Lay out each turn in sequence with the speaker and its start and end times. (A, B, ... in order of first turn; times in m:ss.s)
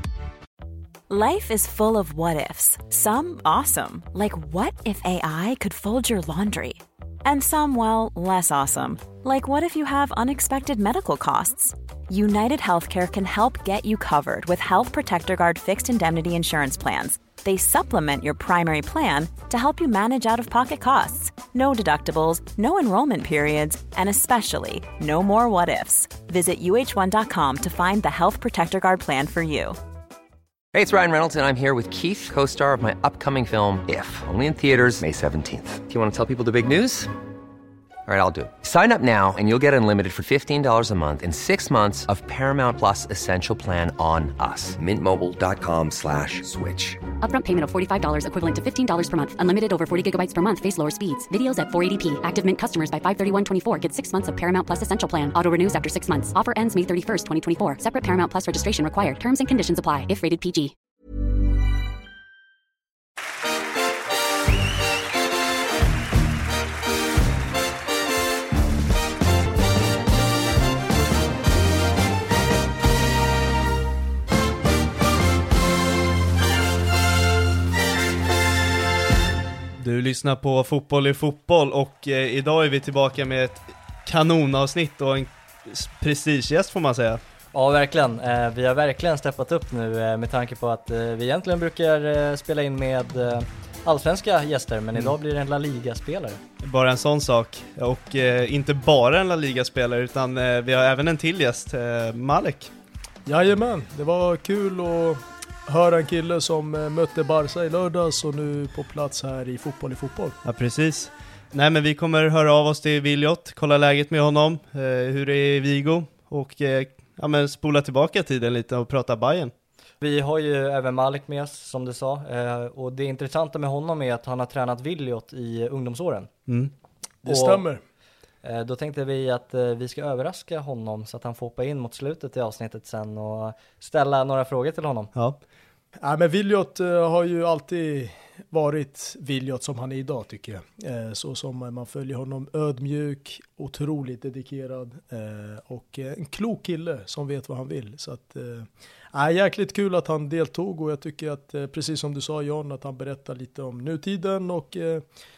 0:01.1-0:29.8 A
0:30.7-0:37.1 B
0:38.1-0:47.0 B
0:47.2-1:00.7 C
1:19.8-1:27.2 D
1:27.5-1:36.4 E
1:36.6-1:42.7 D
1:43.2-1:50.4 F
1:50.4-1:59.5 D
2:00.0-2:06.3 E
2:06.5-2:06.7 D
2:07.2-2:07.8 F
2:07.3-2:07.6 E
2:08.4-2:15.1 E
2:16.0-2:35.0 F